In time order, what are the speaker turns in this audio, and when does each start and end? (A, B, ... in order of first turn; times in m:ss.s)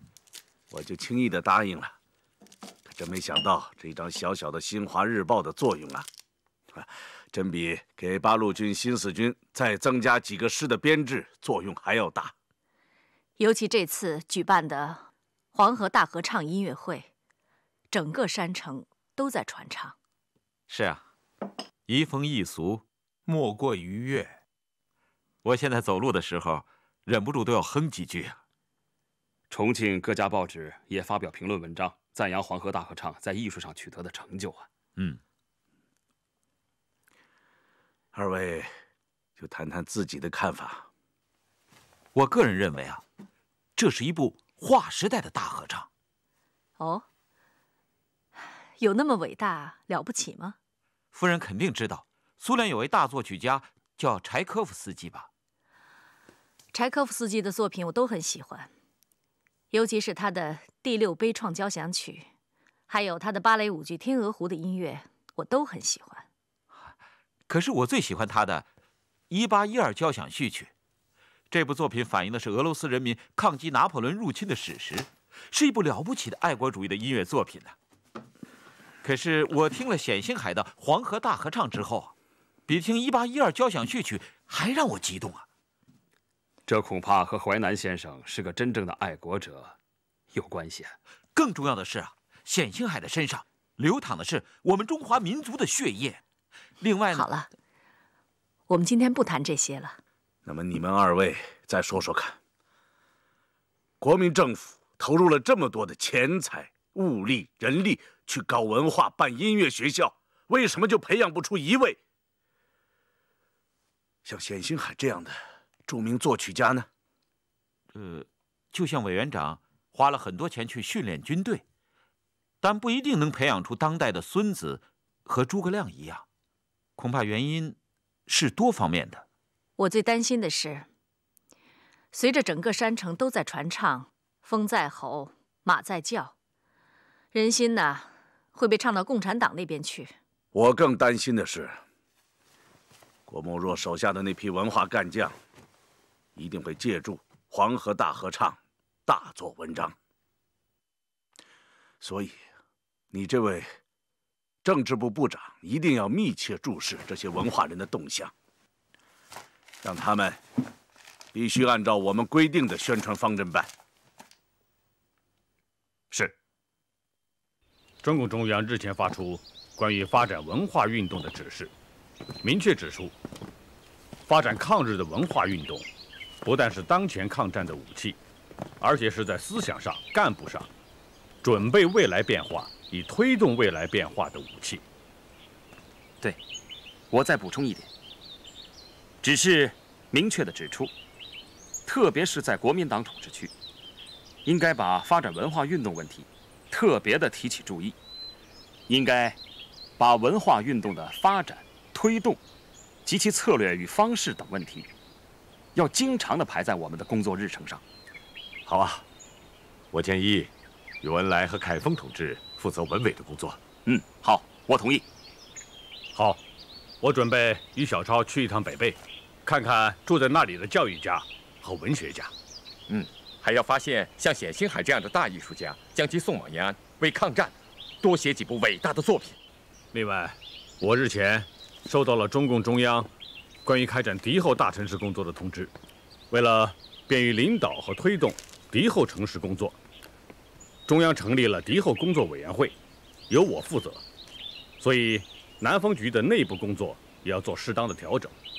0:00.7-0:01.9 A
0:02.9-0:06.0 A
0:06.7-0:12.3 A
0:13.4-0:17.1 B
0:17.9-0:20.0 B
0:26.1-0:26.6 C
0:29.5-0:34.7 D
0:38.1-0:38.7 A
0:39.4-0:40.9 A
0:42.2-0:43.0 C
0:43.8-0:45.9 C
0:46.8-0:47.0 B
0:48.4-0:50.6 B
0:51.2-0:55.2 C
0:56.7-0:58.7 B
0:59.7-1:02.3 B
1:02.9-1:06.2 B
1:07.5-1:08.6 C
1:09.3-1:10.7 C
1:11.5-1:17.6 C
1:19.0-1:22.1 C
1:22.7-1:24.9 C
1:26.7-1:29.8 D
1:30.3-1:31.0 D
1:31.4-1:36.2 C
1:36.8-1:37.2 C
1:37.1-1:37.5 B
1:38.7-1:40.0 B
1:40.4-1:42.4 A
1:44.0-1:52.0 A
1:54.2-1:56.9 A
1:58.0-2:01.6 C
2:02.6-2:06.2 C
2:07.0-2:07.8 C
2:08.3-2:09.2 C
2:09.8-2:10.8 B
2:12.1-2:16.3 B
2:17.3-2:20.1 B
2:20.5-2:21.8 A
2:23.3-2:25.3 A
2:26.4-2:29.9 A
2:32.0-2:32.4 A
2:33.1-2:33.7 A
2:34.6-2:38.3 A
2:39.8-2:40.4 A
2:41.3-2:43.7 A
2:48.0-2:51.7 E
2:52.4-2:53.1 E
2:54.3-2:55.9 E
2:56.4-2:58.2 E
2:58.8-3:00.7 E
3:01.4-3:04.8 E
3:07.1-3:07.9 D
3:09.2-3:10.9 D
3:11.8-3:13.5 D
3:14.4-3:18.0 D
3:18.9-3:19.4 D
3:20.0-3:22.4 D
3:23.0-3:24.9 D
3:25.8-3:27.8 D
3:28.7-3:29.0 E
3:29.9-3:30.5 F
3:31.0-3:33.6 F
3:33.8-3:35.0 D
3:36.1-3:36.4 E
3:37.0-3:42.3 E
3:42.9-3:49.4 G
3:49.9-3:53.1 E
3:53.6-3:55.7 E
3:56.3-3:59.8 E
4:00.9-4:02.8 E
4:03.3-4:04.0 E
4:04.8-4:08.4 E